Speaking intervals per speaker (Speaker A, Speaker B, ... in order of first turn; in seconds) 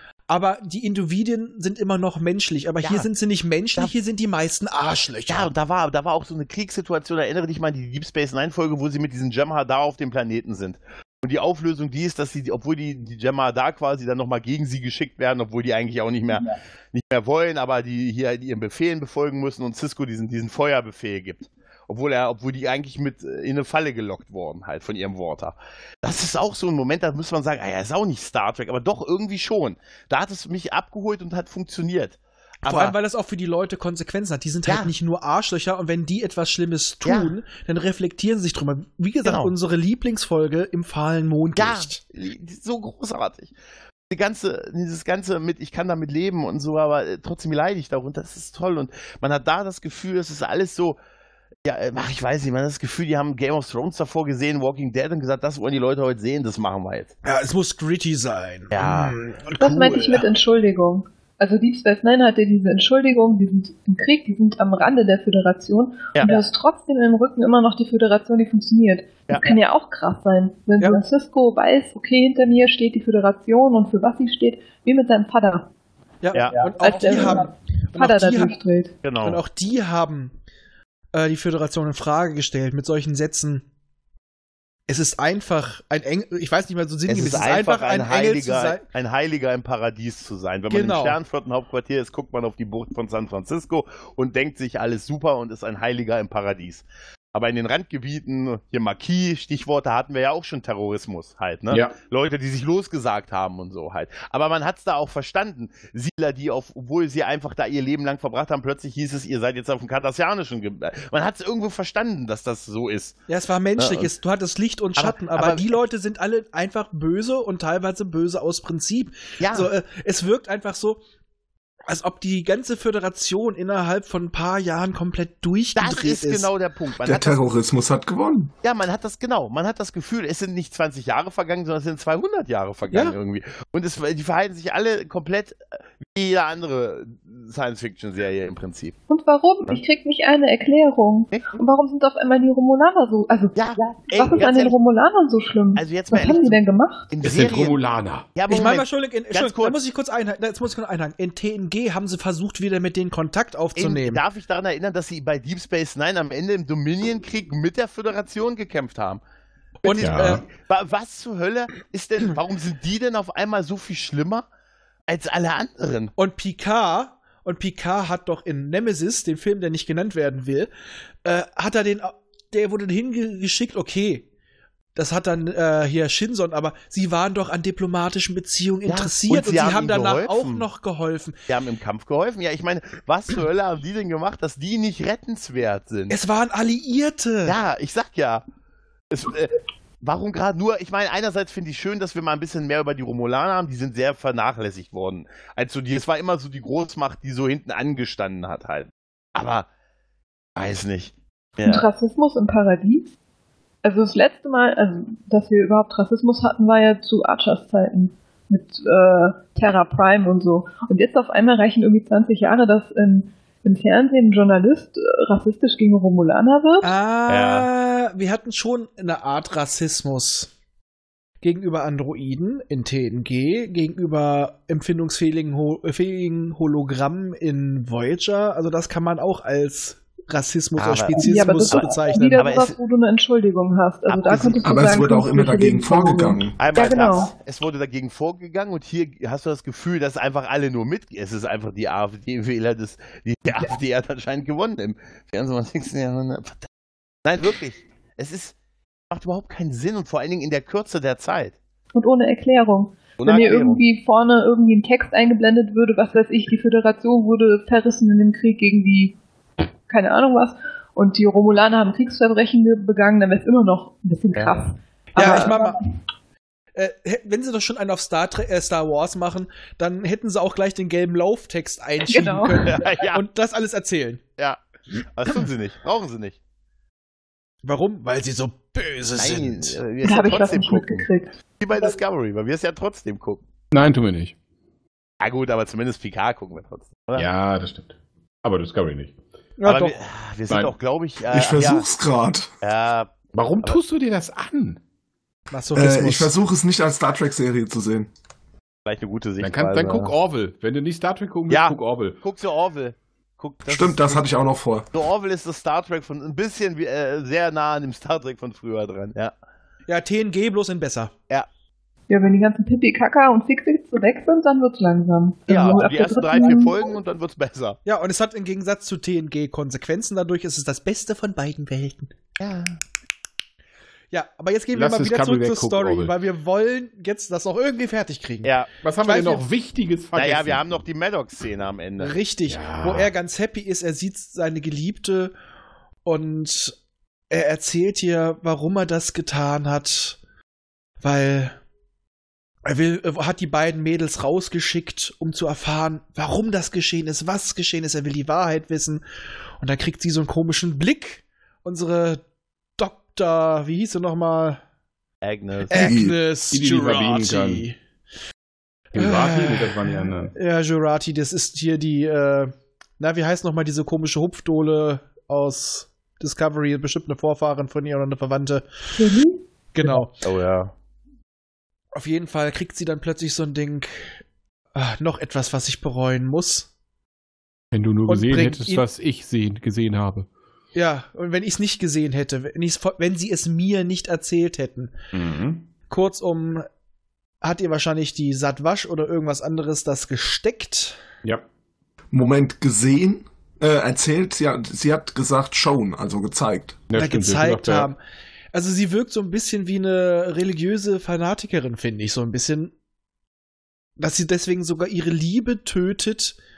Speaker A: 0.3-5.5, 32.6-42.0, 57.2-60.3, 76.2-78.6, 79.2-80.3, 81.1-83.7, 84.9-88.8, 90.7-91.2, 113.3-121.0, 121.9-126.5, 148.5-154.2, 159.8-160.4, 166.2-170.7, 171.2-174.3, 174.9-181.4, 186.1-187.6, 216.8-220.5, 221.4-232.4, 265.2-265.8, 266.8-274.2, 277.6-279.8, 289.6-290.0, 295.5-296.3, 309.9-311.1, 317.9-322.1, 324.1-328.5, 329.0-329.5, 332.0-335.3, 336.1-336.8, 337.3-340.2, 341.0-341.6, 342.6-349.0, 349.6-352.2, 352.8-354.6, 355.7-357.8, 359.0-369.1, 369.7-370.1, 371.9-374.2, 374.8-376.7, 378.1-378.8, 380.8-384.9, 385.9-386.7, 387.4-391.0, 397.0-398.0, 398.5-402.7, 404.0-406.4
Speaker B: 5.3-33.0, 34.7-34.9, 37.0-37.3, 39.2-39.5, 41.6-43.5, 44.1-51.0, 51.6-57.1, 58.7-59.1, 69.3-69.5, 76.3-76.6, 79.0-79.4, 87.1-113.2, 113.8-114.1, 115.0-115.8, 119.4-119.7, 125.8-127.4, 128.6-138.9, 143.6-144.8, 145.8-146.6, 147.1-147.8, 148.3-149.8, 153.8-159.2, 159.8-164.5, 165.1-166.1, 178.9-180.7, 181.5-186.2, 187.5-188.4, 189.1-199.7, 200.6-201.9, 217.3-217.7, 230.8-232.8, 234.1-234.6, 236.6-246.7, 247.2-248.6, 249.1-251.6, 253.2-253.8, 272.7-273.2, 275.1-276.4, 279.2-281.1, 281.6-283.4, 285.2-287.3, 289.6-291.9, 292.6-293.8, 298.9-300.1, 301.5-304.4, 304.9-309.3, 315.5-317.8, 322.4-322.8, 328.4-328.7, 330.1-332.1, 355.2-355.9, 370.2-370.7
Speaker C: 59.6-75.7, 76.8-78.9, 139.1-147.1, 201.6-203.1, 203.8-216.9, 231.1-237.3, 251.9-259.2, 259.9-265.9, 272.1-272.8, 280.0-281.3, 312.1-317.0, 368.9-369.4
Speaker D: 127.0-128.5, 234.6-236.6, 291.3-292.5, 295.8-298.1, 303.7-304.9, 355.7-356.2, 392.1-396.8
Speaker E: 147.2-148.3, 160.0-160.4, 283.7-284.4, 287.2-289.1, 293.3-294.8, 299.4-302.2, 324.7-326.1, 328.8-330.8, 332.5-333.1, 356.5-357.7, 358.9-360.3, 377.7-380.3, 385.1-385.7, 396.9-397.9